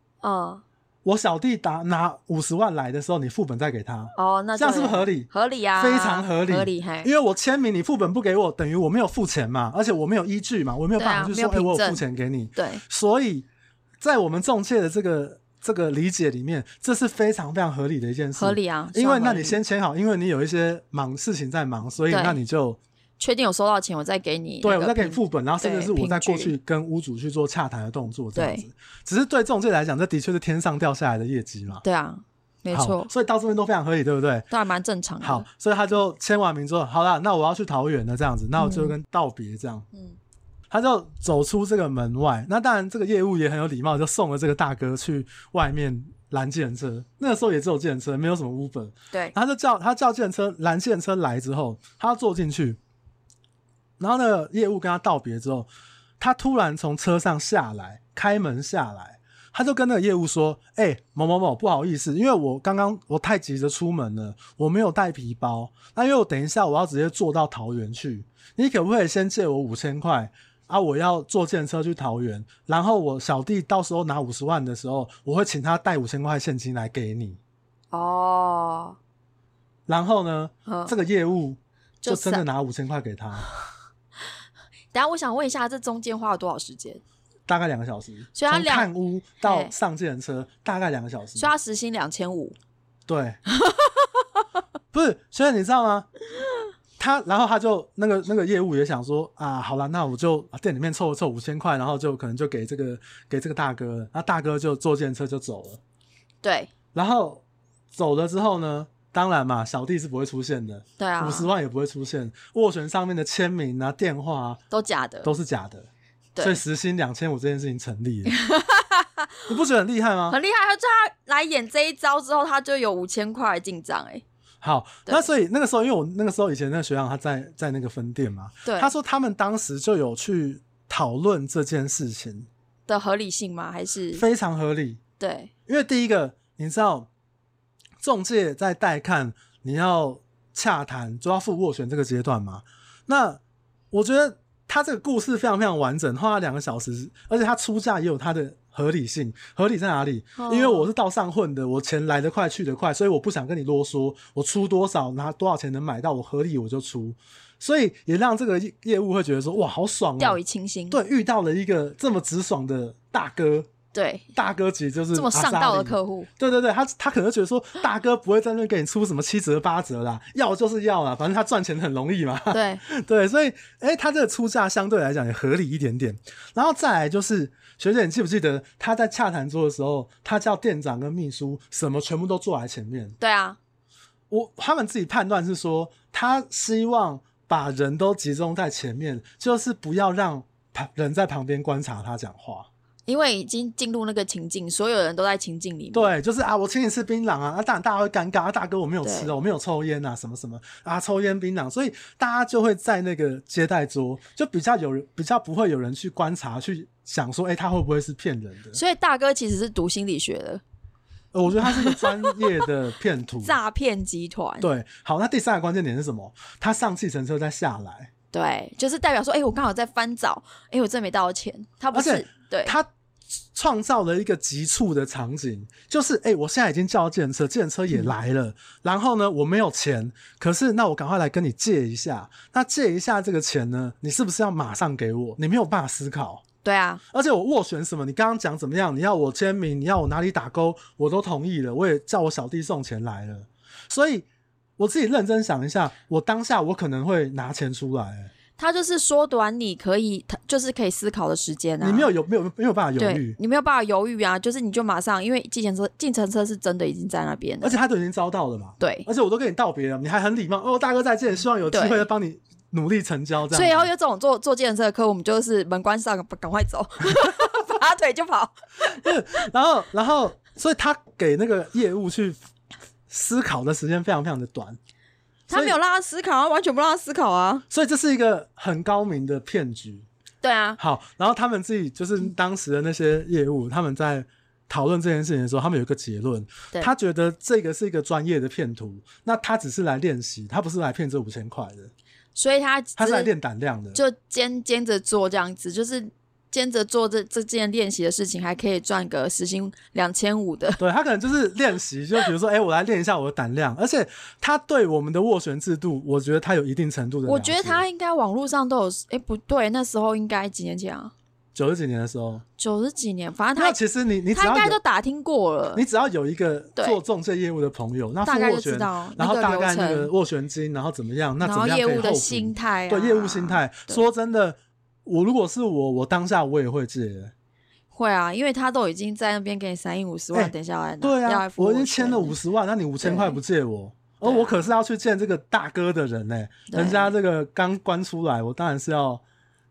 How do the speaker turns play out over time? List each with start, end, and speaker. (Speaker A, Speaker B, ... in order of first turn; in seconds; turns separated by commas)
Speaker A: 0.2-0.6, Speaker B: 1.0-13.5, Speaker A: 4.2-7.1, Speaker A: 11.0-12.0, Speaker A: 12.6-12.8, Speaker B: 14.0-22.8, Speaker A: 18.4-19.6, Speaker A: 22.1-22.4, Speaker A: 23.2-26.5, Speaker B: 24.6-31.8, Speaker A: 28.3-28.6, Speaker A: 31.8-33.1, Speaker B: 32.7-34.5, Speaker A: 34.5-35.5, Speaker B: 35.2-39.9, Speaker A: 38.6-38.9, Speaker B: 40.7-52.8, Speaker B: 54.0-55.7, Speaker B: 56.2-77.4, Speaker A: 77.9-79.0, Speaker B: 79.9-83.5, Speaker A: 80.7-80.9, Speaker A: 82.0-82.4, Speaker A: 84.9-87.0, Speaker B: 87.5-91.5, Speaker A: 88.3-88.9, Speaker A: 89.4-89.7, Speaker A: 91.4-92.5, Speaker B: 93.1-93.4, Speaker A: 93.5-94.2, Speaker B: 94.9-96.1, Speaker B: 97.0-105.8, Speaker A: 106.4-106.7, Speaker B: 106.9-107.4, Speaker B: 107.9-114.6, Speaker A: 111.0-111.5, Speaker A: 114.7-115.3, Speaker B: 115.2-115.9, Speaker A: 116.3-116.6, Speaker B: 116.4-118.3, Speaker A: 118.3-119.5, Speaker B: 119.5-120.4, Speaker A: 120.3-124.2, Speaker B: 124.6-132.5, Speaker A: 128.6-128.9, Speaker A: 132.9-134.2, Speaker B: 134.1-135.0, Speaker A: 135.2-135.5, Speaker B: 135.7-137.1, Speaker B: 138.0-143.4, Speaker B: 143.9-160.4, Speaker A: 150.4-150.9, Speaker A: 160.2-161.0, Speaker B: 160.9-163.7, Speaker A: 163.9-164.3, Speaker B: 164.3-183.2, Speaker A: 165.1-166.3, Speaker A: 172.5-172.8, Speaker A: 183.2-183.6, Speaker B: 184.3-192.7, Speaker A: 193.1-196.1, Speaker B: 195.9-208.8, Speaker A: 199.0-199.3, Speaker A: 208.7-210.6, Speaker B: 211.3-213.6, Speaker A: 211.6-212.6, Speaker A: 213.4-214.7, Speaker B: 214.6-218.1, Speaker A: 218.3-222.7, Speaker B: 221.9-222.9, Speaker B: 223.5-236.4, Speaker A: 236.6-237.0, Speaker B: 237.1-244.3, Speaker B: 244.8-248.3, Speaker A: 248.6-252.1, Speaker B: 251.8-253.4, Speaker A: 253.0-257.8, Speaker B: 257.6-263.9, Speaker A: 258.8-259.1, Speaker A: 261.7-262.1, Speaker A: 263.5-269.0, Speaker B: 268.9-272.4, Speaker B: 273.1-274.8, Speaker A: 275.5-277.6, Speaker B: 275.5-275.8, Speaker B: 277.7-280.1, Speaker A: 280.4-280.8, Speaker B: 280.8-291.9, Speaker A: 292.3-293.3, Speaker B: 293.0-294.0, Speaker A: 293.9-300.8, Speaker B: 300.8-307.8, Speaker A: 307.2-311.1, Speaker B: 311.5-312.4, Speaker A: 312.6-313.8, Speaker B: 313.6-314.8, Speaker A: 314.3-315.8, Speaker B: 315.7-327.3, Speaker A: 318.2-320.1, Speaker A: 321.4-324.0, Speaker A: 327.9-332.3, Speaker B: 330.3-339.2, Speaker A: 333.0-333.4, Speaker A: 334.2-334.7, Speaker A: 336.7-337.1